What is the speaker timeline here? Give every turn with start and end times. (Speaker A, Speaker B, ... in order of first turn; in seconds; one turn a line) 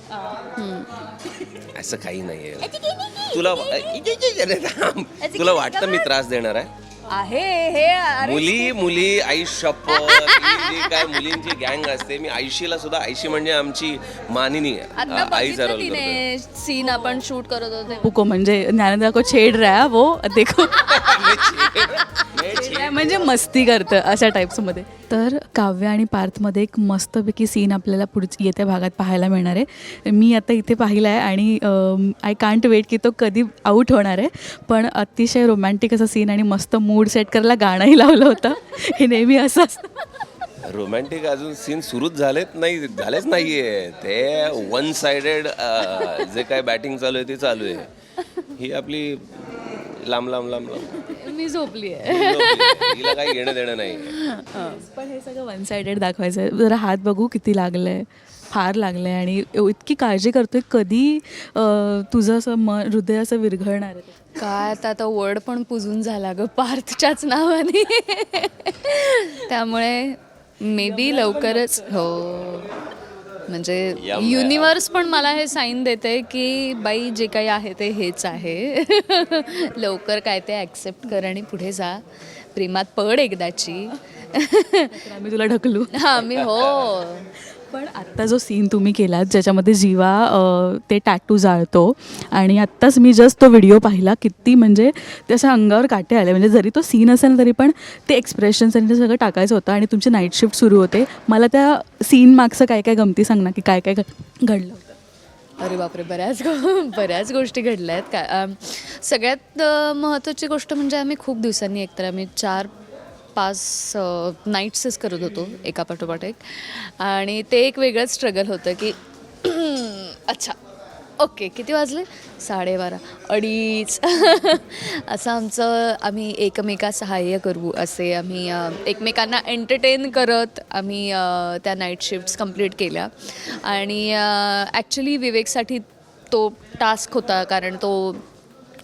Speaker A: 0.3-0.9
Speaker B: 1.7-6.7
Speaker A: 2.8-3.1
Speaker A: 5.2-6.1
Speaker A: 7.1-8.9
Speaker B: 8.2-16.2
Speaker A: 9.9-11.2
Speaker A: 14.9-18.1
Speaker C: 18.0-40.1
Speaker B: 20.8-23.1
Speaker B: 40.6-47.9
Speaker A: 45.8-46.5
Speaker B: 48.5-51.1
Speaker A: 51.0-53.6
Speaker B: 52.0-54.2
Speaker A: 54.2-54.7
Speaker C: 54.4-64.3
Speaker A: 64.4-72.7
Speaker C: 70.8-71.9
Speaker A: 73.5-82.0
Speaker B: 74.0-74.8
Speaker A: 82.5-85.0
Speaker C: 84.9-85.9
Speaker A: 85.9-87.3
Speaker B: 86.3-87.0
Speaker C: 87.7-105.0
Speaker A: 105.6-112.7
Speaker A: 113.4-120.6
Speaker A: 121.2-138.2